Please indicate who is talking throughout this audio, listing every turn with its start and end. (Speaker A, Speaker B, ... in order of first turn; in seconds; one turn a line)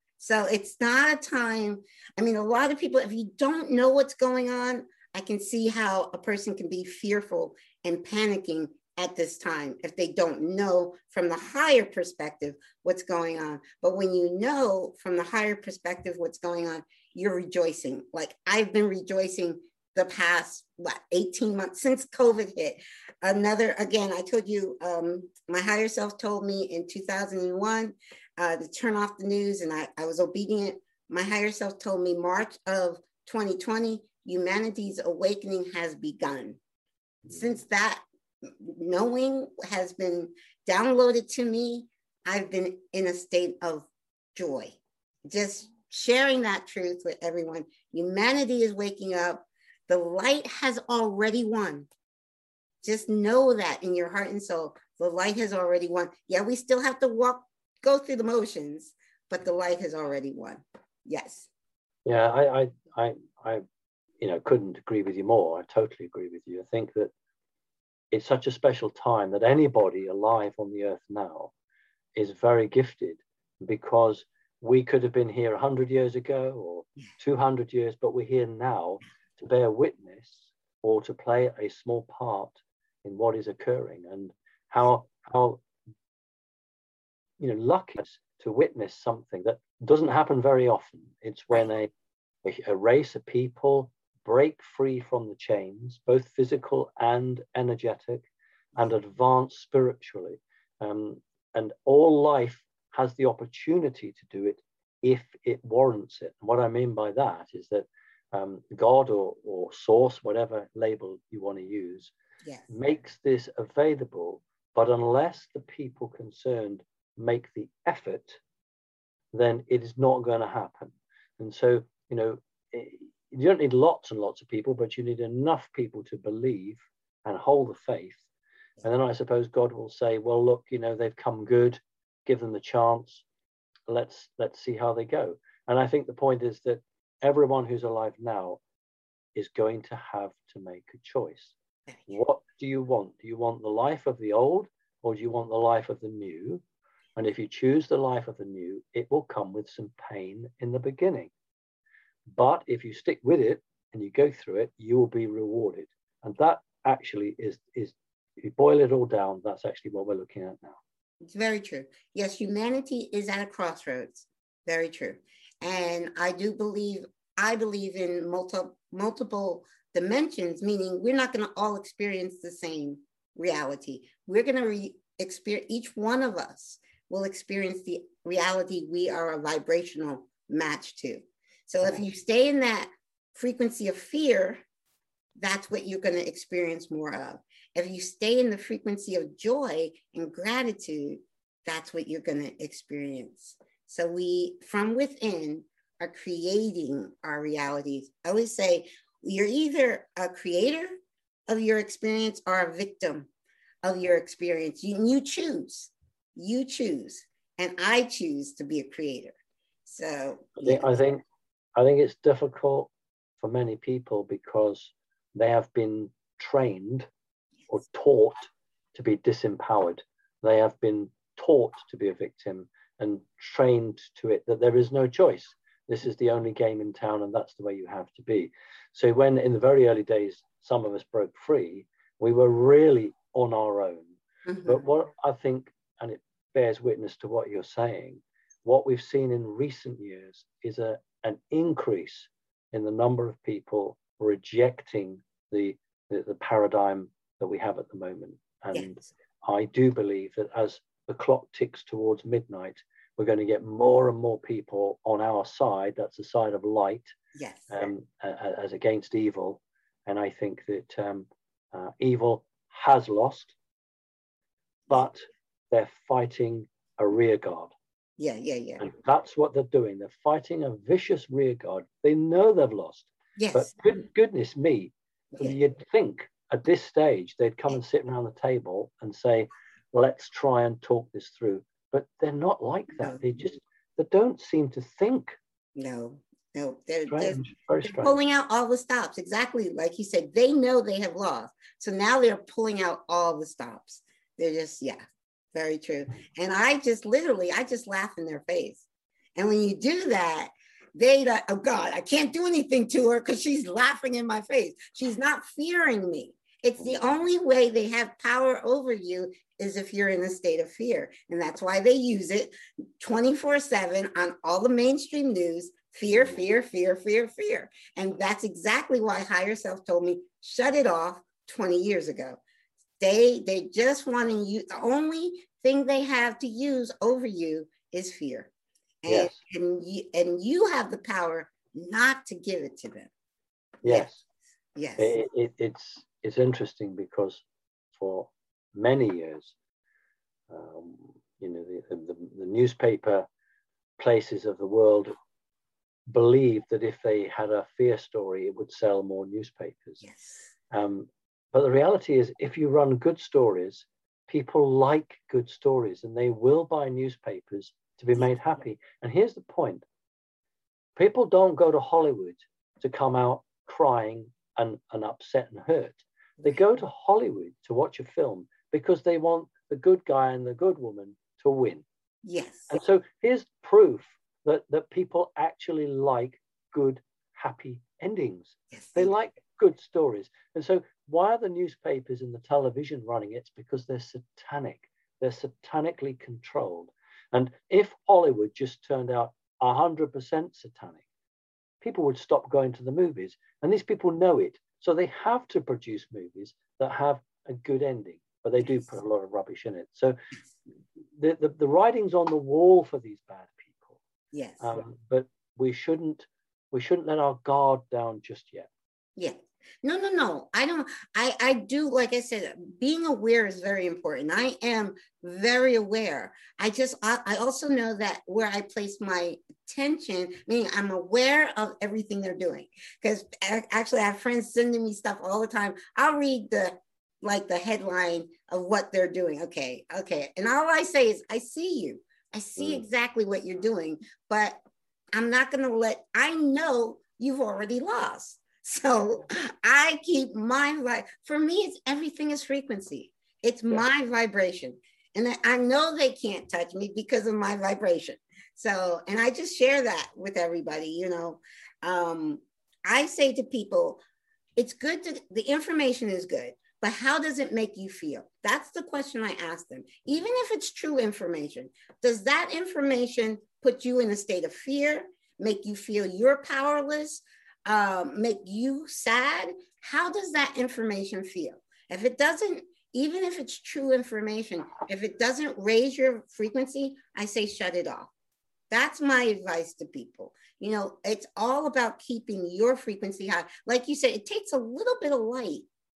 Speaker A: 0.2-36.6
Speaker A: 37.3-51.9
Speaker A: 52.8-61.5
Speaker B: 62.0-63.6
Speaker B: 64.2-67.1
Speaker B: 68.1-71.5
Speaker B: 72.1-85.6
Speaker B: 87.4-91.9
Speaker B: 92.4-112.1
Speaker A: 112.4-112.7
Speaker B: 112.7-118.4
Speaker B: 119.3-128.2
Speaker B: 128.8-133.2
Speaker B: 133.9-138.6
Speaker B: 139.3-141.5
Speaker B: 142.1-146.6
Speaker B: 147.2-151.3
Speaker B: 152.3-160.8
Speaker A: 161.2-184.6
Speaker A: 185.4-200.9
Speaker A: 201.5-203.3
Speaker A: 203.8-209.3
Speaker A: 209.9-210.9
Speaker B: 210.6-211.2
Speaker B: 211.7-217.1
Speaker B: 217.7-257.1
Speaker A: 234.5-234.8
Speaker A: 248.7-249.1
Speaker A: 257.3-257.7
Speaker B: 257.7-263.5
Speaker B: 264.9-267.7
Speaker A: 268.2-268.9
Speaker B: 268.8-285.4
Speaker A: 273.4-273.7
Speaker A: 275.3-275.6
Speaker A: 285.8-295.0
Speaker B: 287.1-288.2
Speaker A: 295.5-298.8
Speaker A: 299.4-322.4
Speaker A: 323.0-328.5
Speaker A: 329.0-333.1
Speaker B: 329.1-329.4
Speaker B: 333.8-334.2
Speaker A: 333.8-334.1
Speaker A: 334.8-335.1
Speaker B: 335.0-337.4
Speaker B: 337.9-339.5
Speaker B: 340.5-343.3
Speaker B: 344.0-345.2
Speaker B: 346.1-350.0
Speaker A: 350.0-350.4
Speaker B: 350.7-359.8
Speaker B: 360.9-371.8
Speaker A: 372.2-372.7
Speaker B: 372.7-391.0
Speaker A: 378.7-379.1
Speaker B: 391.8-400.2
Speaker B: 401.2-404.0
Speaker A: 404.3-404.8
Speaker B: 404.6-408.7
Speaker A: 409.2-434.6
Speaker B: 432.6-432.8
Speaker A: 435.1-454.0
Speaker A: 454.6-478.1
Speaker A: 478.7-485.6